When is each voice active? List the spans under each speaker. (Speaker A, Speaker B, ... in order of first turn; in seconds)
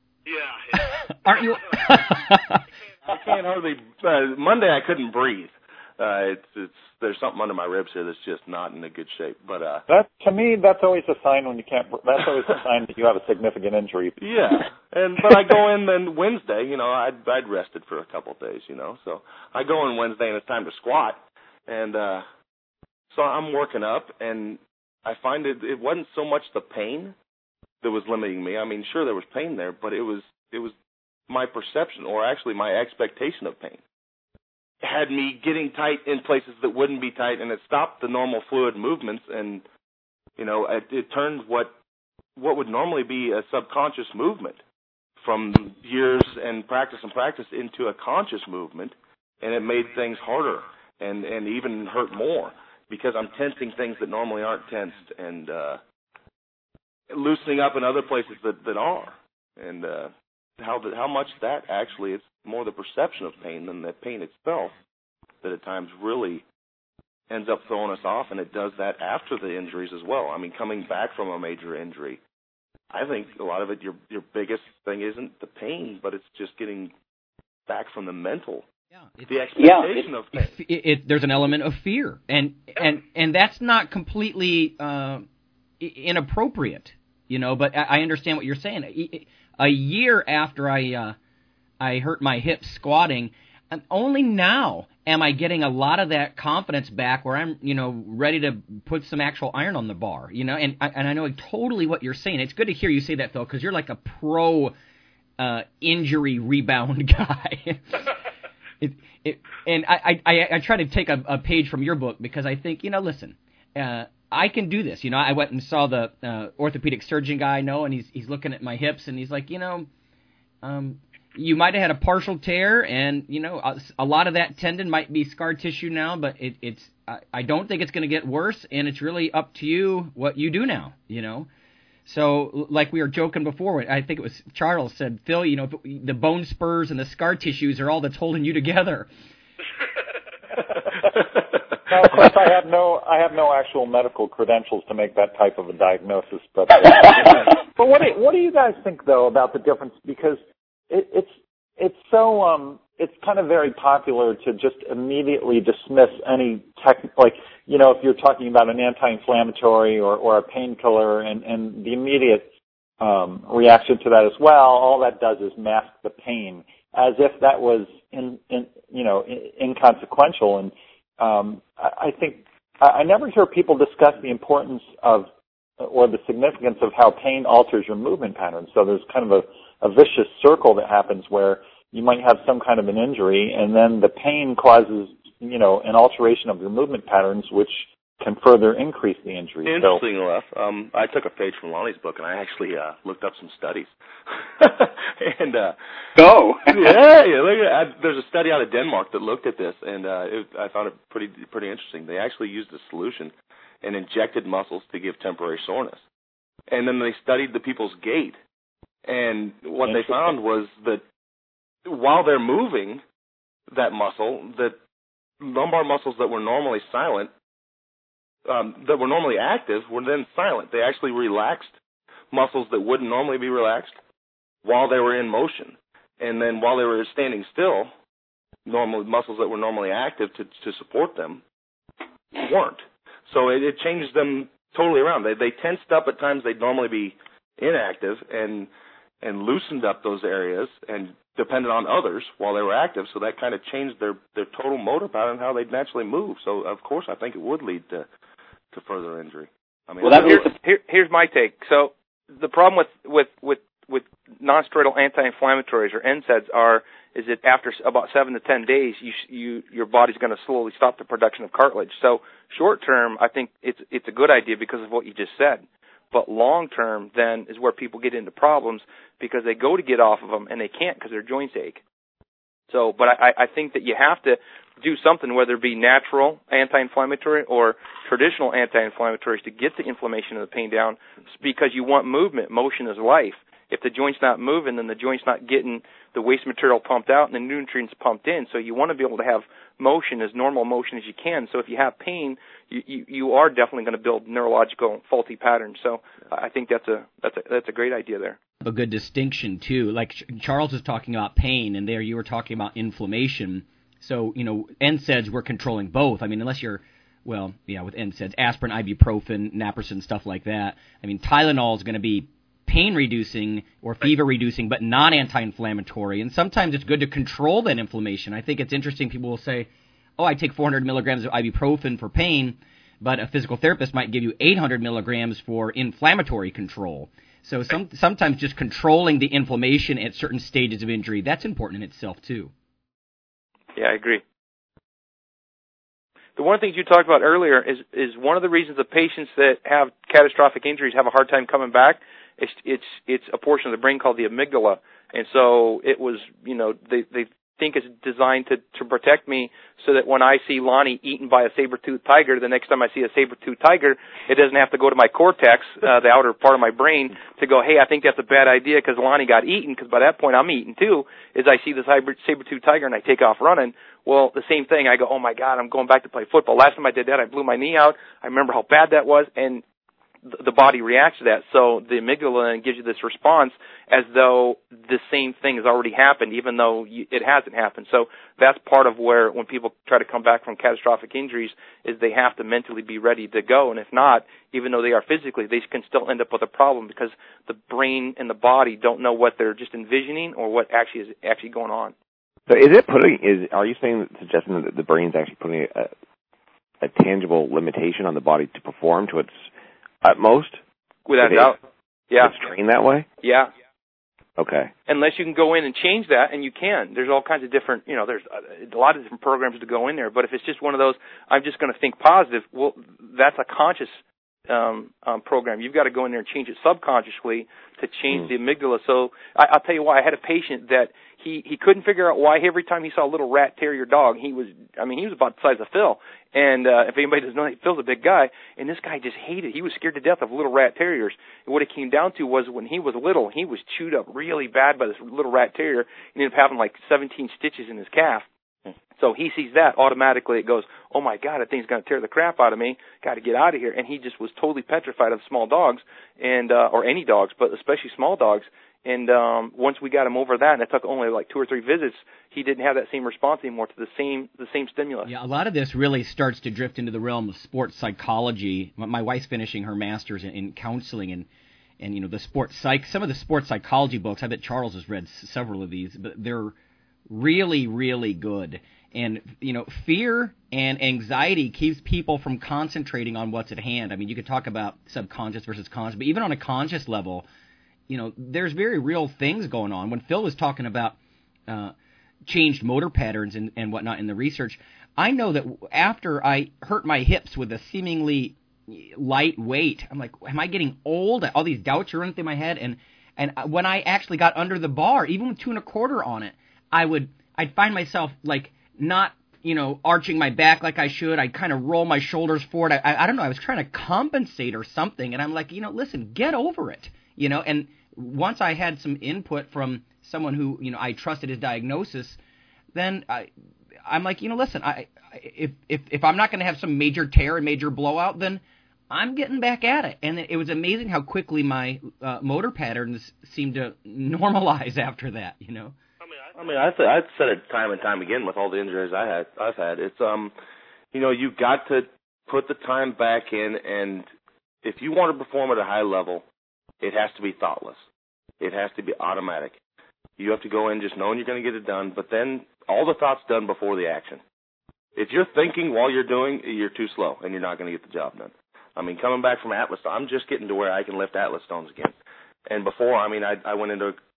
Speaker A: 0.7-2.6, 79.1-85.2, 85.8-91.2, 91.8-104.7, 105.4-108.1, 108.8-119.9, 120.6-131.5, 132.1-139.1, 196.2-196.9, 250.0-250.5, 298.6-332.5, 455.1-461.3, 461.8-466.5, 467.1-477.2, 477.9-480.9, 481.5-481.7, 482.2-512.2, 512.7-513.3, 513.8-525.8
Speaker B: 3.0-9.8, 14.2-22.2, 23.1-27.1, 27.8-30.7, 31.3-33.8, 34.8-39.6, 40.4-41.7, 42.4-44.6, 45.2-55.8, 57.1-64.8, 65.4-66.4, 67.3-72.2, 72.9-76.9, 77.7-78.6, 79.3-80.5, 189.6-195.8, 196.7-206.0, 206.7-208.4, 209.0-211.0, 211.8-213.0, 213.7-214.8, 215.4-217.3, 218.4-221.8, 222.3-224.0, 224.6-227.9, 228.7-231.4, 232.3-238.7, 239.2-248.1, 248.7-250.4, 526.3-530.3, 530.9-534.0, 534.6-536.2, 536.8-537.8, 538.4-539.6, 540.2-544.2, 545.0-551.9, 552.5-554.0
Speaker C: 9.9-14.2, 141.9-162.5, 163.0-175.3, 175.8-190.0
Speaker D: 250.1-271.8, 272.7-298.4, 333.8-334.2, 336.4-369.6, 370.3-391.9, 401.1-401.6, 403.2-403.5, 404.9-414.0, 414.5-438.2, 438.9-455.1
Speaker E: 392.5-395.9, 396.8-399.4, 400.0-400.6, 401.2-401.5, 402.2-403.1, 404.4-404.7